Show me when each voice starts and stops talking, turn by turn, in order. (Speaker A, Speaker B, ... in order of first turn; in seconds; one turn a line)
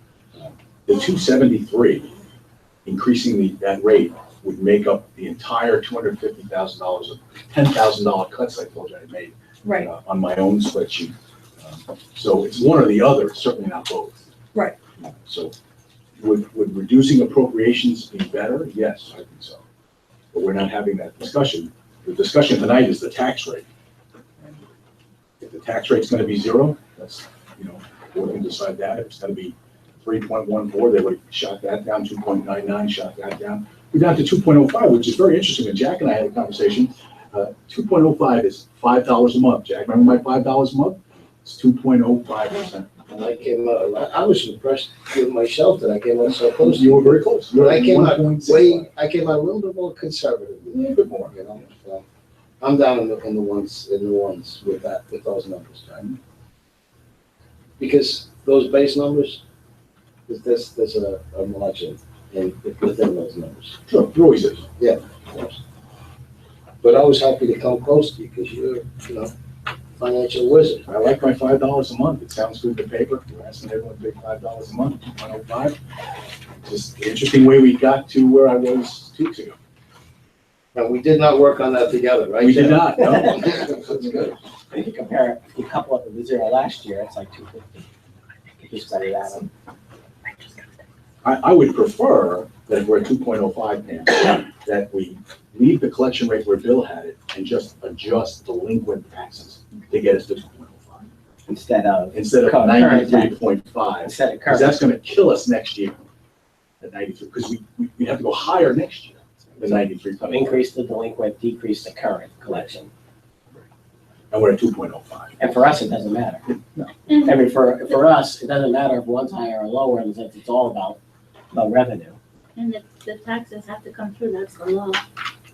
Speaker A: 0.4-2.1
Speaker A: 2.9-14.3
Speaker A: 15.0-15.5
Speaker A: 16.2-19.6
Speaker A: 20.3-23.6
Speaker A: 24.4-24.6
Speaker A: 25.4-42.9
Speaker B: 43.1-52.0
Speaker A: 46.6-48.9
Speaker A: 50.7-51.4
Speaker B: 52.6-56.2
Speaker B: 57.8-59.4
Speaker B: 60.3-63.8
Speaker A: 63.9-64.7
Speaker B: 64.8-65.6
Speaker B: 66.8-69.3
Speaker B: 70.0-70.9
Speaker A: 70.9-75.8
Speaker A: 76.6-79.6
Speaker B: 80.7-84.3
Speaker A: 82.4-84.3
Speaker C: 83.0-83.4
Speaker C: 84.7-87.9
Speaker C: 88.6-89.5
Speaker A: 91.2-101.1
Speaker C: 101.5-103.4
Speaker A: 102.1-106.0
Speaker C: 104.0-104.8
Speaker A: 106.8-110.6
Speaker C: 109.6-112.9
Speaker A: 114.3-115.5
Speaker C: 115.4-116.4
Speaker D: 117.1-117.4
Speaker C: 117.2-121.0
Speaker C: 121.5-122.2
Speaker D: 122.6-125.0